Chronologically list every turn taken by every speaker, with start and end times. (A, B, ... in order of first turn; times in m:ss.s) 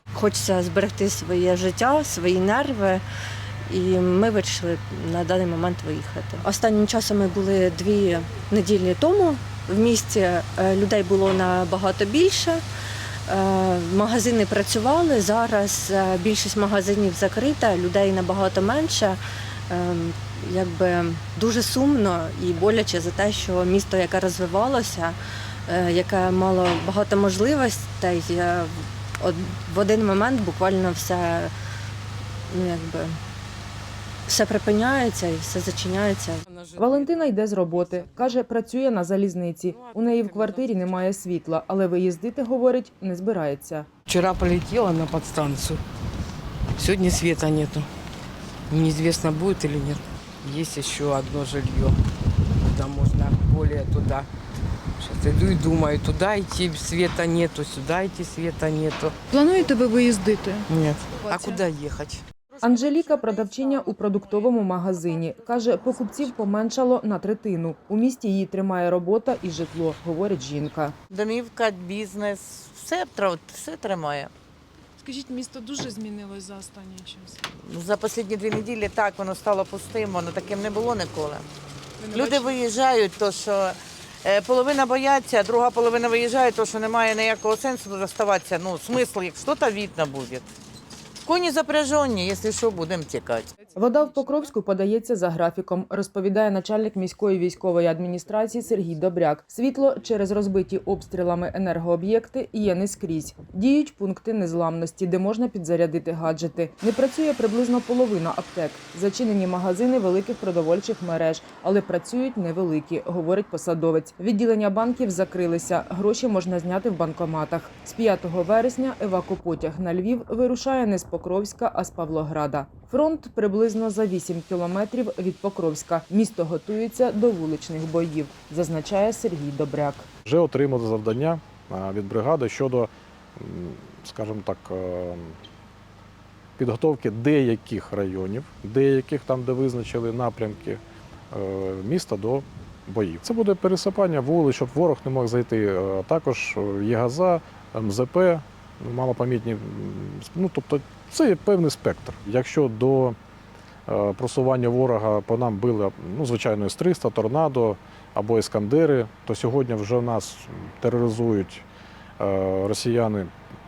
0:00.1-0:03.0 A
0:03.6-0:12.6 A
0:13.3-0:31.5 A
0:32.5-0:33.2 A
0:34.2-0:36.4 A
0:36.5-0:38.4 B
0:36.8-0:43.9 C
0:39.7-0:41.0 B
0:44.0-0:45.8 B
0:46.8-0:47.9 B
0:48.7-0:52.0 B
0:52.5-0:54.3 B
0:55.0-0:59.2 B
0:59.4-1:00.7 D
1:00.7-1:02.2 B
1:02.6-1:04.6 E
1:02.6-1:10.9 C
1:11.1-1:14.3 E
1:15.0-1:17.4 D
1:17.4-1:21.5 E
1:22.0-1:22.4 D
1:22.1-1:30.5 E
1:31.2-1:33.5 E
1:33.7-2:10.1 C
2:10.2-2:15.4 F
2:16.6-2:33.2 F
2:33.9-2:41.6 F
2:42.2-2:43.3 F